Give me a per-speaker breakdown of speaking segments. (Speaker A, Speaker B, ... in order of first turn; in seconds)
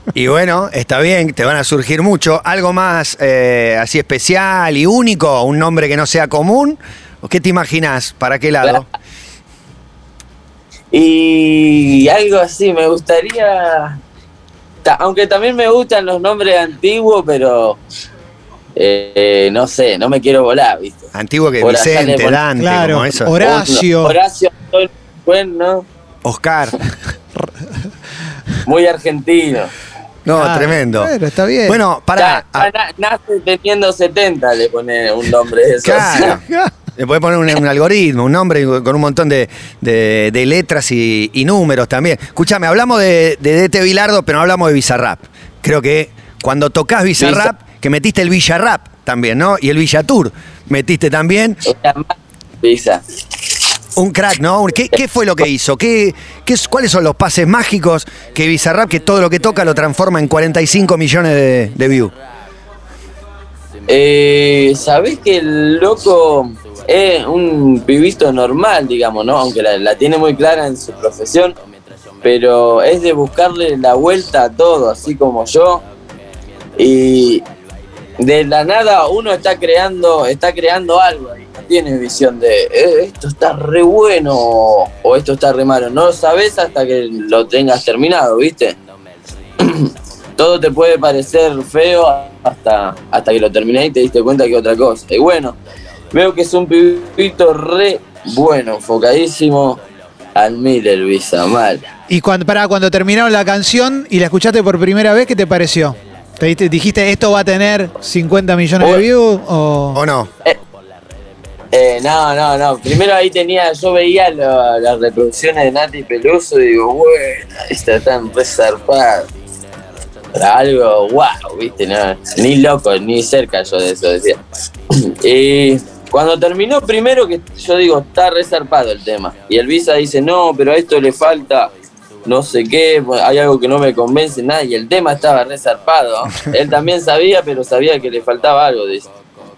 Speaker A: 0.1-8.9, 21.1-23.5, 26.2-26.8, 30.2-31.1, 31.7-32.7, 35.8-36.4, 37.0-51.6, 54.0-62.1, 109.9-110.3
Speaker B: 10.9-14.0, 14.8-17.8, 18.8-22.4, 23.4-25.9, 28.6-29.7, 32.2-36.4, 47.2-47.5, 51.7-53.0, 63.9-71.5, 72.2-75.8, 76.8-77.4, 78.2-88.8, 89.6-95.6, 96.1-99.8, 100.3-101.8, 111.7-119.3, 120.3-124.4, 125.0-131.7, 132.3-139.1
Speaker C: 22.6-24.2, 30.4-31.8, 102.1-110.0